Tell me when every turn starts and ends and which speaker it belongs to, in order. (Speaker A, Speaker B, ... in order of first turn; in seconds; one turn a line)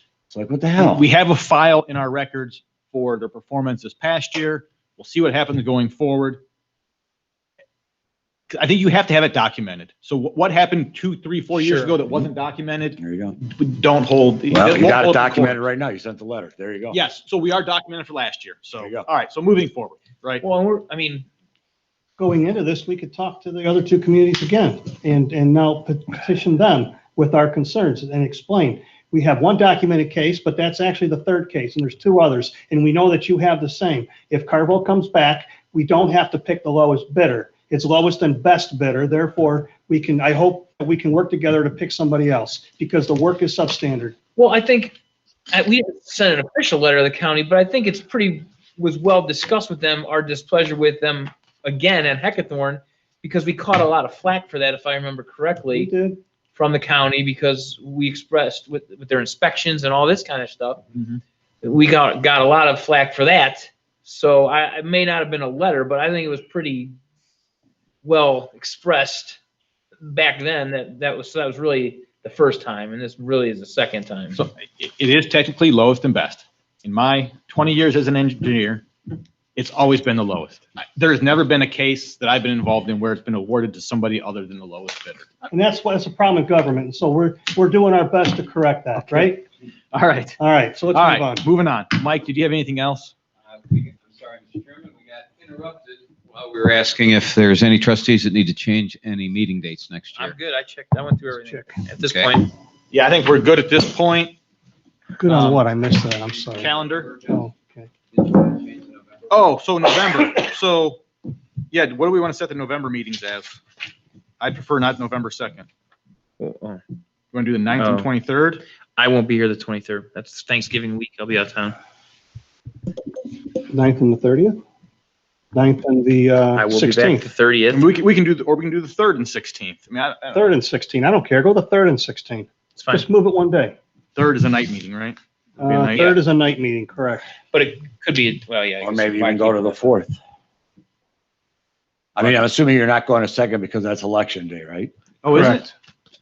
Speaker A: 0.3-1.1
Speaker B: 0.8-6.4
Speaker B: 8.5-15.6
Speaker C: 11.7-12.0
Speaker A: 13.0-13.4
Speaker A: 14.5-17.0
Speaker B: 16.9-20.4
Speaker A: 18.8-19.1
Speaker C: 20.4-21.2
Speaker D: 22.2-44.1
Speaker C: 44.4-45.0
Speaker C: 45.5-55.9
Speaker D: 55.7-56.2
Speaker C: 56.5-60.9
Speaker B: 61.0-61.2
Speaker C: 61.6-67.0
Speaker C: 68.0-69.4
Speaker C: 70.0-74.4
Speaker B: 74.3-78.8
Speaker B: 79.5-85.3
Speaker D: 85.5-89.4
Speaker B: 89.0-89.3
Speaker B: 89.9-90.4
Speaker D: 90.4-91.5
Speaker B: 90.9-93.1
Speaker E: 93.5-100.3
Speaker C: 100.1-102.5
Speaker D: 101.3-101.9
Speaker E: 102.0-102.3
Speaker B: 102.9-104.3
Speaker D: 105.2-107.9
Speaker B: 105.3-105.6
Speaker B: 106.5-107.1
Speaker E: 108.4-109.2
Speaker B: 109.3-111.0
Speaker B: 111.7-113.6
Speaker B: 114.4-115.7
Speaker C: 116.4-116.8
Speaker B: 117.3-118.6
Speaker C: 117.8-118.1
Speaker C: 119.0-121.8
Speaker D: 123.7-124.6
Speaker D: 125.5-127.3
Speaker C: 126.5-127.9
Speaker B: 127.7-130.6
Speaker D: 130.3-133.8
Speaker C: 132.8-133.1
Speaker B: 134.2-136.1
Speaker D: 135.6-137.2
Speaker C: 137.5-140.0
Speaker A: 138.8-140.2
Speaker A: 142.2-144.9
Speaker B: 145.2-145.7
Speaker D: 145.3-145.7